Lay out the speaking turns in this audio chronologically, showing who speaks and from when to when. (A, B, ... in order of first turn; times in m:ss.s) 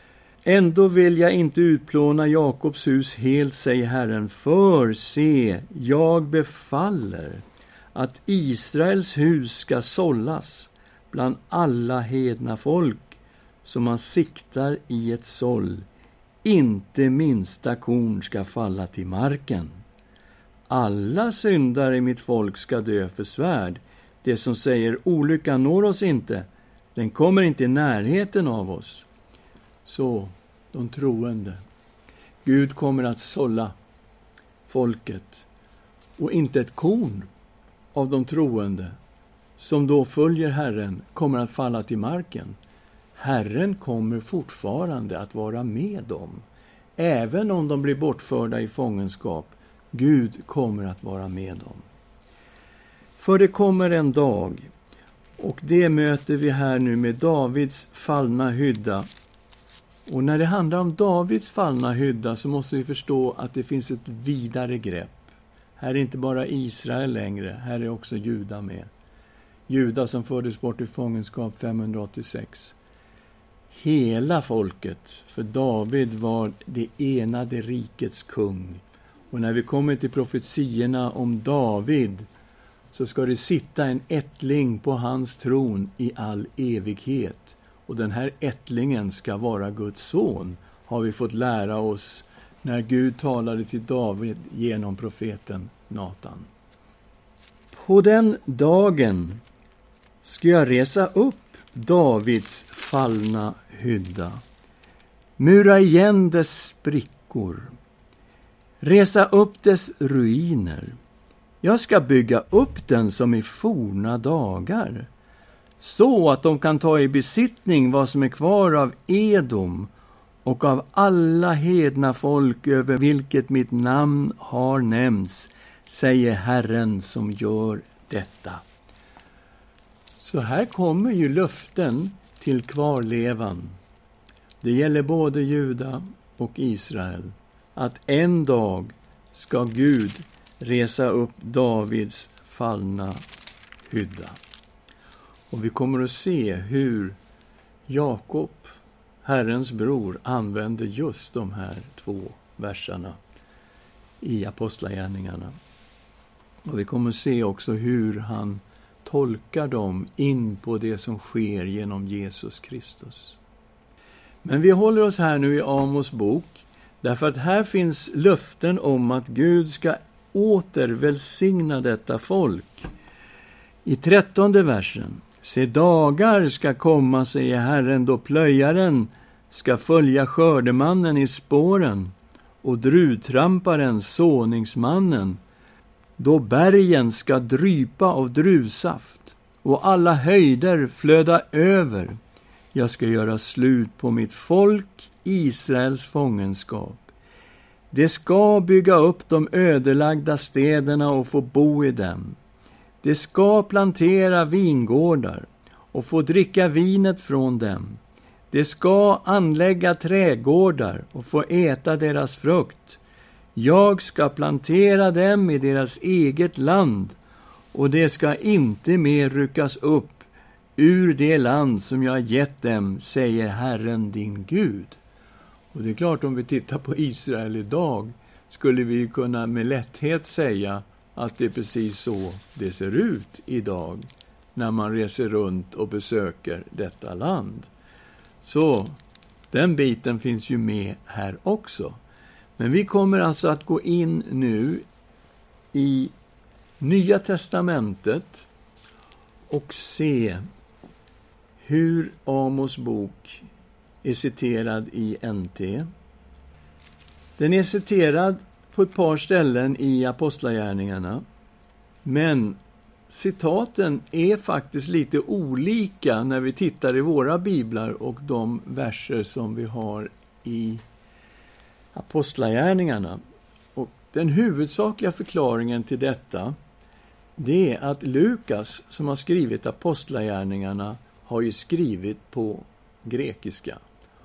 0:00.4-0:07.4 A
0:07.9-0:15.8 A
0:16.4-0:19.8 A
0:20.7-0:29.0 A
0:29.8-0:31.6 A
0:32.4-0:33.7 A
0:34.7-0:35.4 A
0:36.2-0:37.3 A
0:37.9-0:38.9 A
0:39.6-0:42.6 A
0:43.2-0:46.4 A
0:47.0-0:51.8 A
0:53.2-0:54.7 A
0:55.4-0:59.0 A
1:00.1-1:05.3 A
1:05.8-1:08.9 A
1:09.7-1:12.8 A
1:13.7-1:22.3 A
1:22.9-1:36.5 A
1:37.7-1:39.4 A
1:40.2-1:44.4 A
1:45.4-1:47.7 A
1:48.8-1:50.9 A
1:51.6-1:55.1 A
1:55.8-1:59.9 A
2:00.4-2:08.6 A
2:10.2-2:13.8 A
2:14.6-2:23.2 A
2:23.9-2:24.4 A
2:25.5-2:27.2 A
2:27.9-2:33.2 A
2:34.2-2:35.5 A
2:36.6-2:43.4 A
2:44.4-2:52.9 A
2:53.8-3:05.4 A
3:06.2-3:12.1 A
3:12.7-3:17.1 A
3:17.9-3:22.4 A
3:23.0-3:28.0 A
3:28.5-3:33.0 A
3:33.6-3:37.2 A
3:37.7-3:40.2 A
3:40.8-3:45.0 A
3:45.7-3:57.7 A
3:58.4-3:59.0 A
3:59.5-4:02.0 A
4:02.6-4:04.8 A
4:05.7-4:06.1 A
4:06.8-4:08.5 A
4:09.5-4:10.4 A
4:11.6-4:13.4 A
4:14.0-4:15.8 A
4:17.4-4:21.2 A
4:22.0-4:22.6 A
4:23.1-4:30.8 A
4:31.9-4:33.2 A
4:33.7-4:36.5 A
4:37.4-4:43.8 A